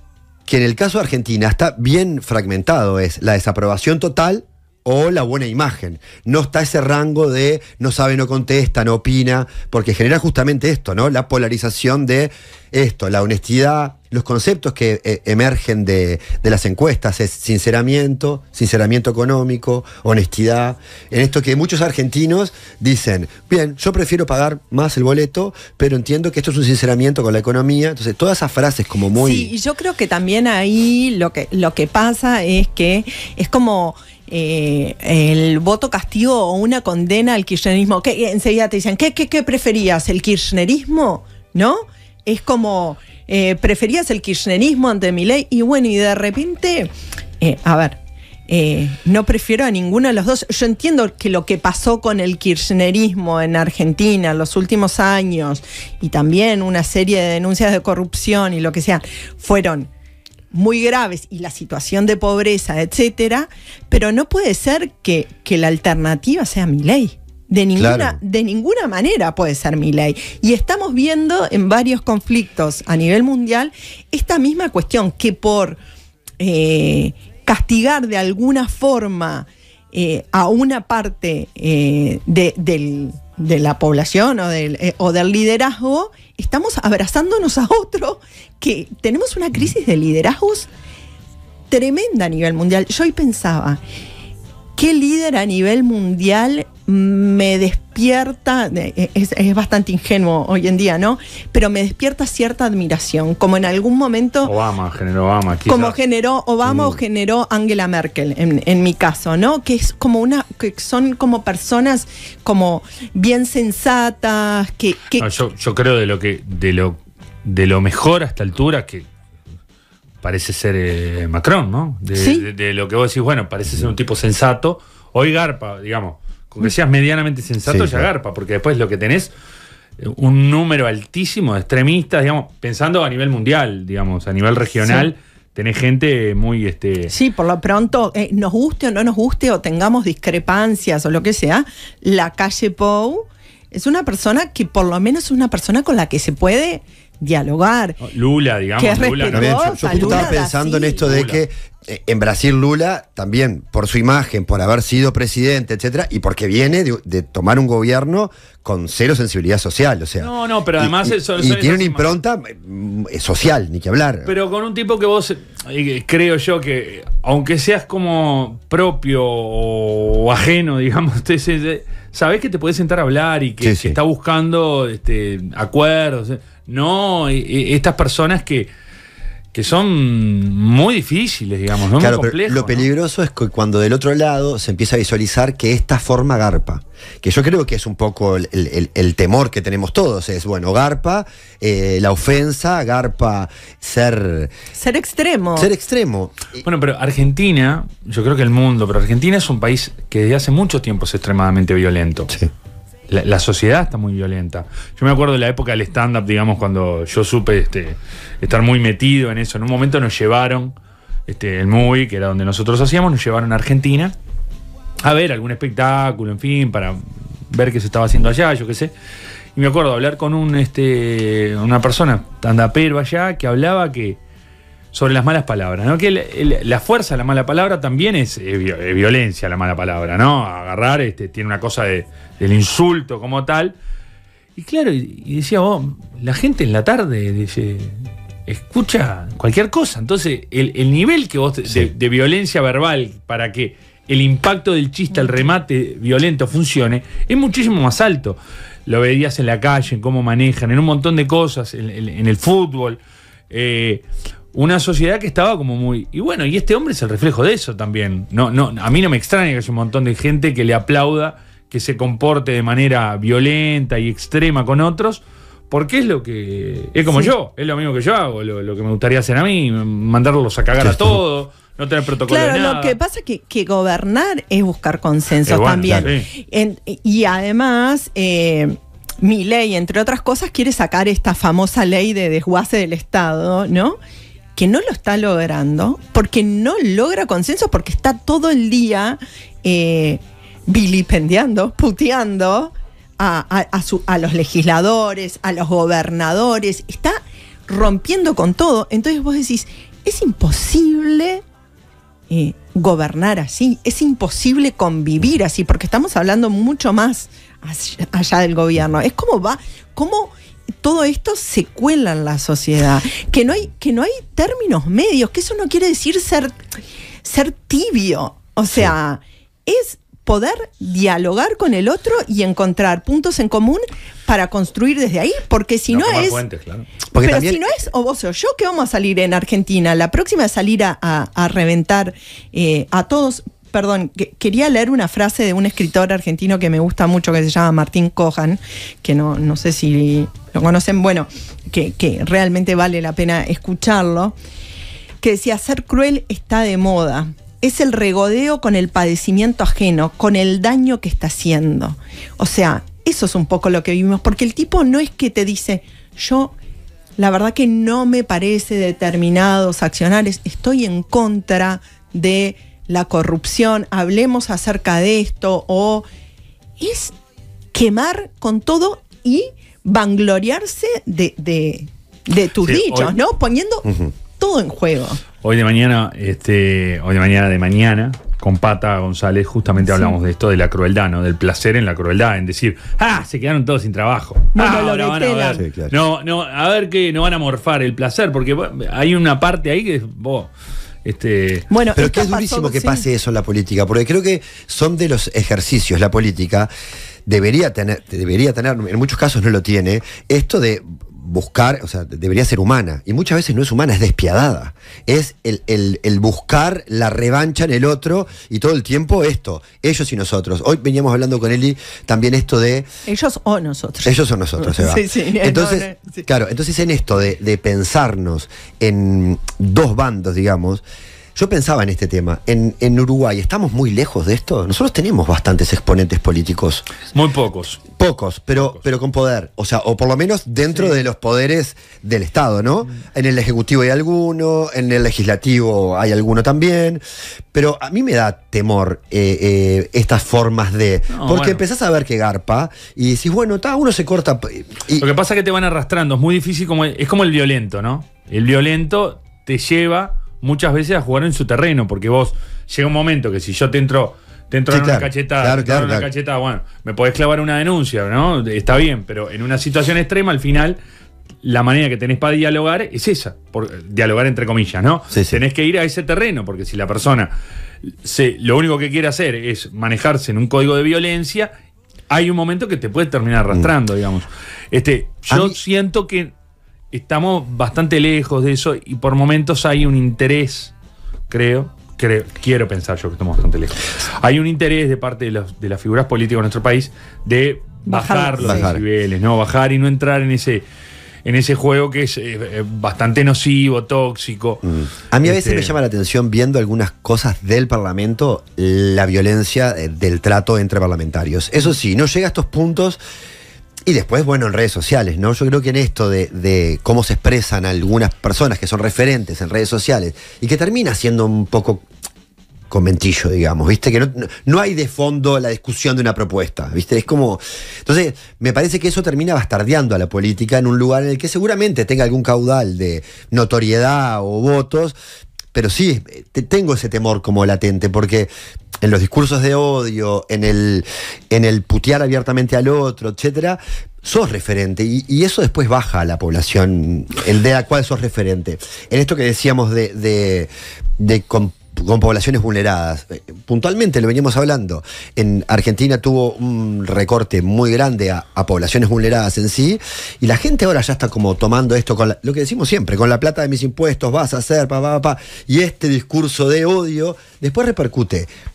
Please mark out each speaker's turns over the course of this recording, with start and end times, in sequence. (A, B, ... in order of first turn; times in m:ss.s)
0:00.5-0:29.5 A
0:29.2-0:59.9 B
1:00.5-1:15.8 B
1:07.8-1:08.2 A
1:16.4-1:30.7 B
1:31.7-1:33.8 B
1:34.8-1:44.5 B
1:44.4-1:46.0 C
1:45.7-1:55.3 B
1:46.7-1:47.0 A
1:55.2-1:59.1 C
2:00.2-2:09.3 C
2:02.2-2:02.4 B
2:07.7-2:08.1 A
2:10.0-2:17.1 C
2:17.1-2:28.0 B
2:28.0-2:30.4 C
2:28.8-2:31.1 B
2:29.3-2:44.3 A
2:31.0-2:31.4 C
2:40.2-2:42.1 C
2:44.3-2:58.7 C
2:53.6-2:54.0 A
2:59.5-3:02.9 C
3:02.0-3:14.5 A
3:14.8-3:15.7 B
3:15.6-3:16.6 A
3:16.6-3:22.3 C
3:23.1-3:30.7 C
3:31.3-3:34.2 C
3:35.0-3:38.9 C
3:39.6-3:44.2 C
3:44.9-3:53.8 C
3:54.6-4:33.0 C
4:30.8-4:31.2 A
4:32.3-4:44.0 B
4:35.4-4:36.3 C
4:44.6-5:01.4 B
5:02.3-5:16.6 B
5:17.2-5:26.4 B
5:25.9-5:26.9 C
5:27.1-5:27.6 A
5:27.2-5:44.4 B
5:45.2-5:56.5 B
5:57.2-6:06.1 B
6:06.8-6:07.1 B
6:07.7-6:15.2 B
6:12.6-6:13.2 C
6:15.4-6:30.5 C
6:19.8-6:20.2 B
6:24.6-6:25.6 B
6:25.6-6:25.9 A
6:31.0-6:31.7 C
6:31.7-6:33.0 B
6:32.0-6:36.7 A
6:37.3-6:52.9 A
6:53.1-6:56.3 B
6:54.0-7:00.8 A
7:01.4-7:06.8 A
7:07.1-7:07.8 C
7:07.9-7:17.0 A
7:17.5-7:25.1 A
7:21.1-7:21.6 C
7:25.0-7:40.8 C
7:34.7-7:36.1 A
7:41.4-7:47.3 C
7:45.1-7:45.4 A
7:47.8-7:51.5 C
7:52.1-7:56.3 C
7:55.3-7:55.6 A
7:56.9-8:00.7 C
8:01.3-8:10.6 C
8:07.9-8:08.7 B
8:08.4-8:08.8 A
8:11.2-8:14.7 C
8:14.6-8:23.0 A
8:15.2-8:15.8 C
8:23.8-8:31.9 A
8:32.7-8:45.0 A
8:45.5-8:48.3 A
8:48.8-9:18.3 A